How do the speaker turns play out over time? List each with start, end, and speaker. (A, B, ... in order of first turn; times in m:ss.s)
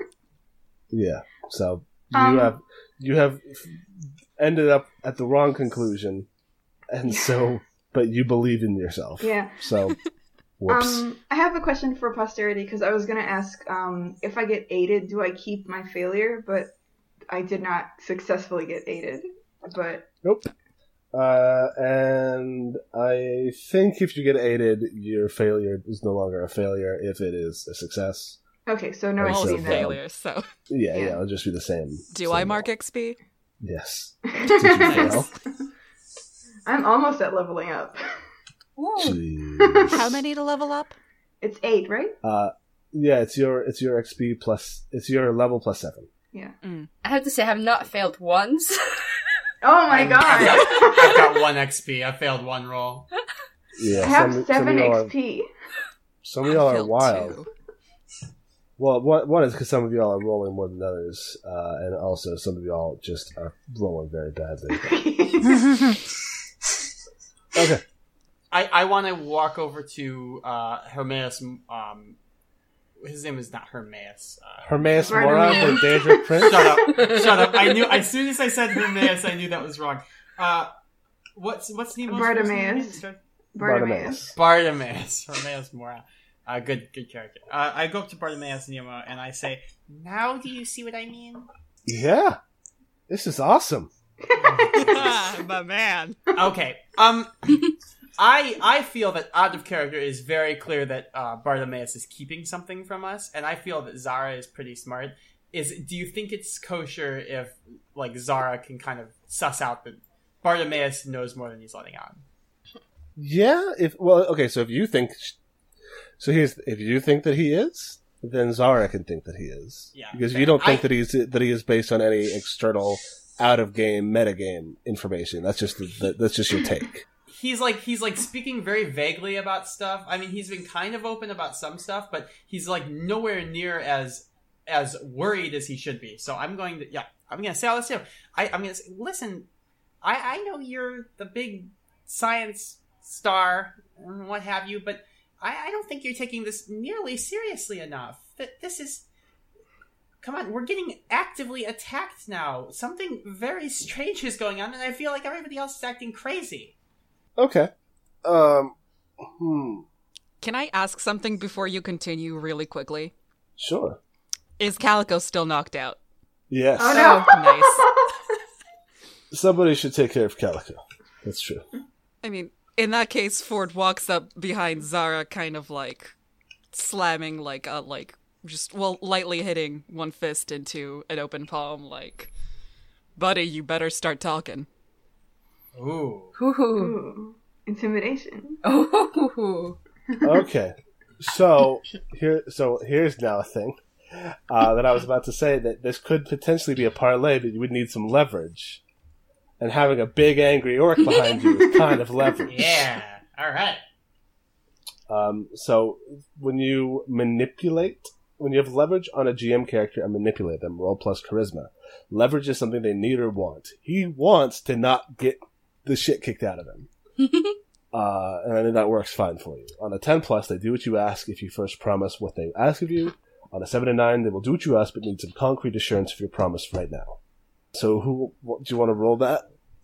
0:00.9-0:03.8 A
0:02.1-0:02.6 B
0:04.4-0:06.3 A
0:06.9-0:10.0 A
0:09.2-0:09.6 B
0:10.6-0:11.1 A
0:10.7-0:16.7 B
0:17.3-0:20.1 B
0:20.2-0:20.5 A
0:21.1-0:28.4 A
0:28.7-0:29.9 B
0:29.2-0:30.0 A
0:29.2-0:30.5 C
0:30.7-0:32.7 A
0:30.9-0:31.2 B
0:32.1-0:33.2 C
0:33.6-0:35.3 A
0:34.3-0:35.3 B
0:34.8-0:35.3 C
0:36.7-0:38.0 B
0:38.8-0:39.2 D
0:39.0-0:40.0 A
0:39.6-0:40.0 B
0:39.9-0:40.9 C
0:41.4-0:42.2 B
0:42.2-0:46.1 A
0:46.6-0:46.9 C
0:47.0-0:48.8 D
0:49.6-0:51.3 B
0:49.9-0:53.1 E
0:53.8-0:55.1 A
0:54.0-0:55.5 B
0:56.2-0:57.4 A
0:56.5-0:57.5 C
0:58.8-1:05.0 A
1:04.8-1:05.8 B
1:07.6-1:07.8 A
1:08.5-1:12.2 E
1:13.0-1:14.7 E
1:14.6-1:16.8 A
1:15.0-1:16.4 B
1:16.4-1:20.7 E
1:21.4-1:23.2 E
1:22.1-1:23.0 B
1:23.6-1:24.2 B
1:23.6-1:24.3 A
1:24.4-1:31.5 E
1:31.9-1:32.4 A
1:33.1-1:33.9 A
1:34.3-1:35.1 B
1:34.4-1:35.1 E
1:34.7-1:36.2 C
1:36.3-1:37.6 E
1:38.2-1:52.2 E
1:53.2-1:55.4 A
1:56.2-2:07.0 A
1:59.9-2:00.9 E
2:07.3-2:19.5 E
2:20.0-2:29.0 E
2:30.2-2:36.7 E
2:37.4-2:37.7 A
2:38.2-2:39.8 A
2:40.4-2:43.1 C
2:43.6-2:44.0 A
2:44.6-2:46.0 C
2:46.5-2:47.2 A
2:46.8-2:48.1 B
2:46.9-2:47.9 C
2:49.3-2:51.7 A
2:52.2-2:56.1 C
2:56.7-3:02.3 C
3:03.2-3:04.7 C
3:05.8-3:06.4 E
3:06.4-3:07.0 D
3:06.8-3:08.6 B
3:08.6-3:09.8 D
3:10.2-3:18.8 A
3:19.6-3:22.8 A
3:22.5-3:23.8 E
3:25.1-3:36.9 A
3:37.2-3:37.5 D
3:37.9-3:47.2 A
3:47.7-3:49.5 A